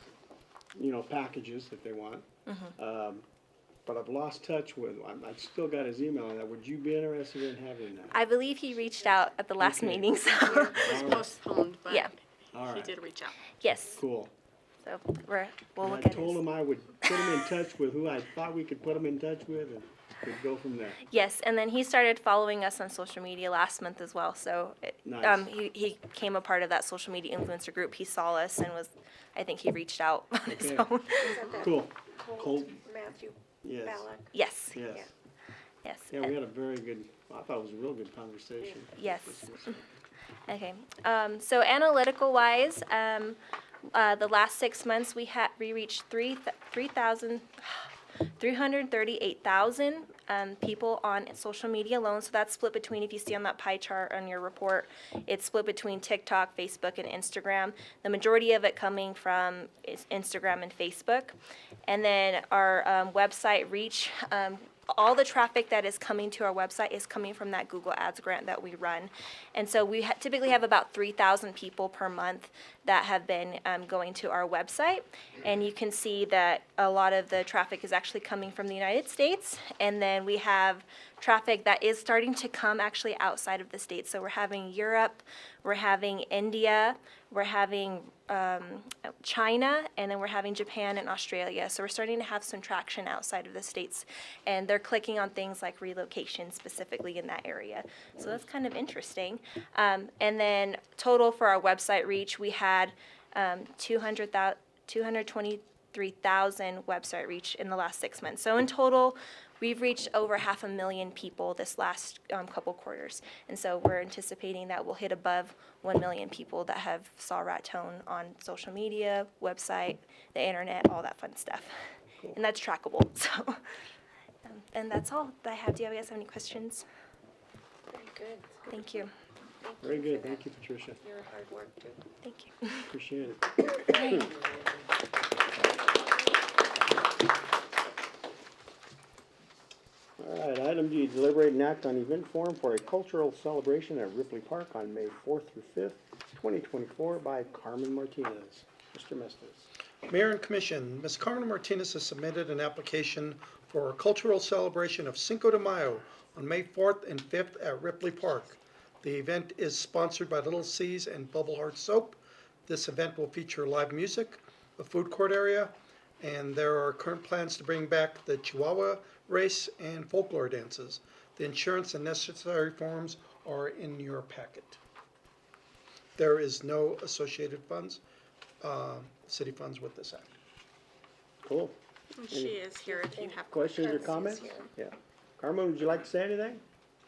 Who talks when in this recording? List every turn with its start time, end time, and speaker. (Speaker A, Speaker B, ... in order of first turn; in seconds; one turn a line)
Speaker A: 0.7-3.2
Speaker B: 2.5-2.7
Speaker A: 3.9-8.1
Speaker B: 8.1-11.1
Speaker A: 9.6-11.4
Speaker C: 10.6-12.1
Speaker B: 11.9-12.1
Speaker A: 12.5-13.0
Speaker C: 12.6-13.4
Speaker B: 13.6-14.0
Speaker A: 13.9-14.3
Speaker B: 14.8-16.4
Speaker A: 15.8-21.0
Speaker B: 21.1-31.4
Speaker A: 25.0-25.5
Speaker A: 30.5-30.9
Speaker D: 31.2-34.3
Speaker A: 31.5-32.8
Speaker A: 33.6-34.1
Speaker B: 34.3-34.8
Speaker A: 34.7-35.1
Speaker B: 35.8-36.3
Speaker A: 36.1-39.8
Speaker B: 39.0-39.5
Speaker B: 40.5-43.4
Speaker B: 43.9-61.4
Speaker B: 61.9-121.7
Speaker B: 122.3-123.6
Speaker B: 124.4-126.8
Speaker D: 127.9-128.9
Speaker B: 128.7-129.1
Speaker D: 129.6-130.4
Speaker A: 129.8-131.0
Speaker D: 131.0-132.0
Speaker B: 132.2-132.9
Speaker A: 132.9-134.2
Speaker B: 133.9-134.3
Speaker A: 140.2-149.7
Speaker E: 150.1-174.8
Speaker E: 176.2-178.0
Speaker E: 178.6-180.3
Speaker A: 181.4-181.8
Speaker C: 182.2-184.5
Speaker A: 182.3-182.7
Speaker D: 182.9-183.3
Speaker A: 183.5-186.6
Speaker D: 183.8-184.7